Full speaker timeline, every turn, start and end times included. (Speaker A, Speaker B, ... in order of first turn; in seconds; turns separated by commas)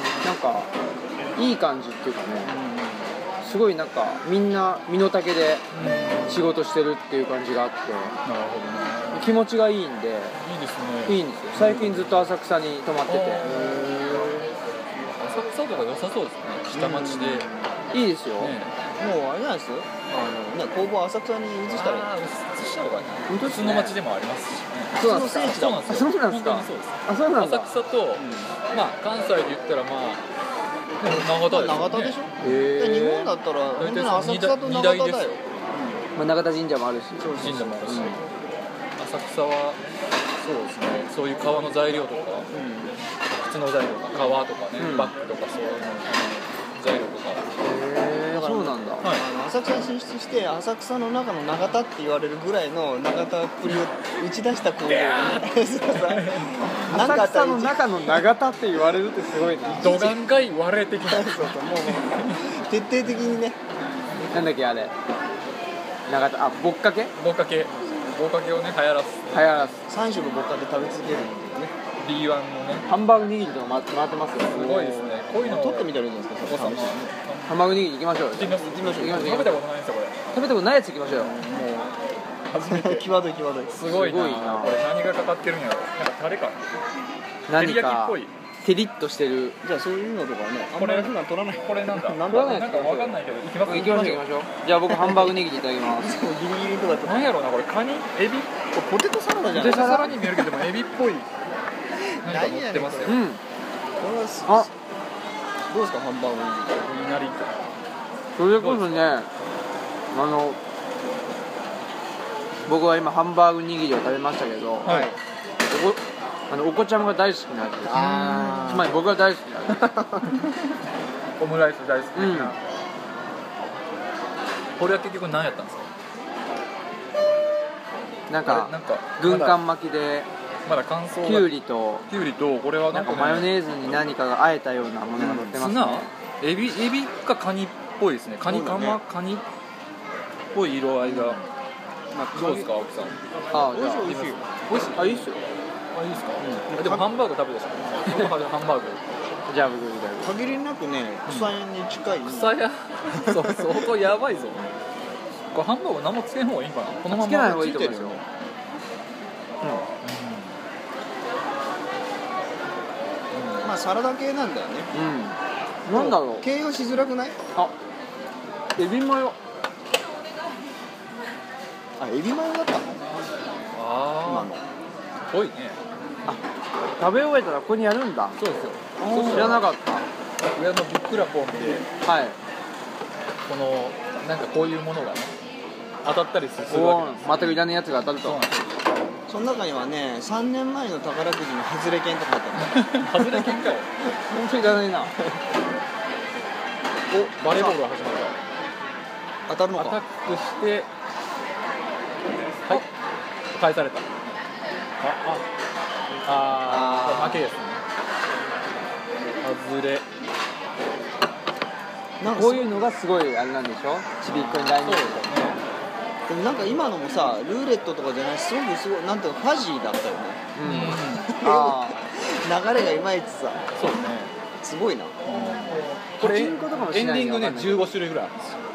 Speaker A: 0.2-0.7, Speaker A: 1.4-2.5, Speaker B: 2.5-3.1, Speaker A: 3.4-5.7, Speaker C: 5.7-6.4, Speaker B: 5.8-6.2, Speaker A: 6.2-8.1, Speaker C: 8.2-9.3, Speaker A: 9.1-10.3, Speaker C: 10.4-12.3, Speaker A: 11.1-13.6, Speaker C: 13.1-14.5, Speaker C: 15.2-17.5, Speaker B: 16.7-17.7, Speaker A: 17.9-18.5, Speaker C: 18.4-18.7, Speaker B: 19.0-22.1, Speaker C: 21.7-30.2, Speaker A: 23.3-24.0, Speaker B: 24.9-26.0, Speaker A: 25.0-27.8, Speaker B: 28.1-28.5, Speaker C: 31.0-32.1, Speaker B: 31.0-36.0, Speaker A: 32.4-33.3, Speaker C: 33.8-35.3, Speaker A: 36.2-38.2, Speaker B: 37.2-38.2, Speaker C: 37.4-38.2, Speaker C: 39.0-39.8, Speaker C: 40.4-42.5, Speaker B: 42.5-43.0, Speaker C: 43.3-47.5, Speaker A: 44.8-45.1, Speaker A: 47.6-49.0, Speaker B: 48.3-58.2, Speaker C: 54.8-56.7, Speaker A: 56.9-59.8, Speaker B: 59.6-60.2, Speaker C: 59.8-62.4, Speaker B: 61.0-63.6, Speaker A: 64.3-64.9, Speaker A: 66.1-67.1, Speaker C: 67.2-69.4, Speaker A: 69.3-69.8, Speaker B: 69.9-71.7, Speaker C: 72.0-72.9, Speaker A: 72.8-75.1, Speaker C: 74.4-75.9, Speaker B: 75.3-77.1, Speaker C: 76.4-80.2, Speaker A: 77.5-79.6, Speaker B: 78.6-79.3, Speaker A: 80.3-81.3, Speaker B: 81.1-81.9, Speaker B: 82.5-83.8, Speaker C: 83.7-86.8, Speaker A: 83.9-84.8, Speaker A: 87.5-89.6, Speaker C: 87.5-88.3, Speaker B: 89.6-93.1, Speaker C: 90.8-94.2, Speaker A: 92.3-96.2, Speaker B: 94.9-95.3, Speaker B: 95.8-97.3, Speaker C: 97.0-98.7, Speaker B: 98.7-100.5, Speaker C: 99.5-101.3, Speaker A: 99.5-100.1, Speaker B: 102.0-103.2, Speaker C: 102.2-103.2, Speaker A: 103.0-103.4, Speaker B: 104.0-104.7, Speaker B: 105.7-106.9, Speaker C: 106.8-107.5, Speaker A: 108.4-109.3, Speaker C: 108.5-109.0, Speaker A: 110.1-110.6, Speaker A: 112.7-114.9, Speaker C: 114.8-115.1, Speaker B: 114.8-115.2, Speaker A: 115.7-118.0, Speaker B: 117.8-118.9, Speaker C: 118.0-118.7, Speaker A: 118.7-119.9, Speaker B: 119.7-120.4, Speaker C: 121.4-122.6, Speaker A: 122.2-122.5, Speaker C: 124.8-125.9, Speaker A: 128.3-130.3, Speaker C: 128.4-129.6, Speaker C: 130.7-131.5, Speaker A: 131.2-132.0, Speaker C: 132.1-133.5, Speaker A: 132.9-136.1, Speaker B: 135.2-135.6, Speaker C: 135.5-139.4, Speaker B: 138.4-139.0, Speaker C: 140.5-141.4, Speaker B: 141.0-141.4, Speaker B: 142.1-142.7, Speaker C: 142.3-143.2, Speaker A: 143.5-144.1, Speaker B: 143.7-144.5, Speaker C: 144.1-145.2, Speaker A: 144.9-145.4, Speaker C: 145.9-149.0, Speaker B: 146.7-147.1, Speaker A: 149.5-150.3, Speaker B: 150.2-152.6, Speaker C: 151.2-151.5, Speaker C: 152.2-154.7, Speaker B: 153.1-153.9, Speaker C: 155.5-157.9, Speaker A: 157.1-158.2, Speaker B: 157.6-158.2, Speaker C: 160.0-160.6, Speaker C: 163.3-163.7, Speaker B: 163.6-164.9, Speaker A: 164.9-166.4, Speaker B: 165.9-167.3, Speaker A: 168.8-169.4, Speaker B: 172.0-173.0, Speaker C: 173.7-174.5, Speaker B: 174.2-174.6, Speaker C: 175.3-175.8, Speaker A: 177.0-178.4, Speaker C: 178.4-179.7, Speaker B: 179.0-179.7, Speaker A: 179.2-180.1, Speaker C: 180.5-181.9, Speaker A: 182.0-182.4, Speaker C: 183.5-185.3, Speaker C: 186.0-187.7, Speaker A: 186.7-188.4, Speaker C: 188.2-188.6, Speaker B: 189.3-193.6, Speaker C: 192.6-193.9, Speaker A: 194.3-195.2, Speaker B: 197.1-197.8, Speaker C: 197.3-198.4, Speaker B: 199.5-200.0, Speaker C: 199.8-200.9, Speaker C: 203.5-204.1, Speaker C: 205.0-205.4, Speaker C: 206.2-207.8, Speaker A: 206.6-207.4, Speaker B: 206.6-207.3, Speaker C: 209.4-210.0, Speaker B: 212.2-212.7, Speaker A: 212.2-215.6, Speaker B: 214.2-214.8, Speaker C: 214.7-215.6, Speaker B: 216.3-223.7, Speaker A: 220.6-222.0, Speaker C: 220.6-221.3, Speaker C: 223.7-224.3, Speaker B: 224.6-225.8, Speaker C: 225.2-228.4, Speaker A: 226.2-227.8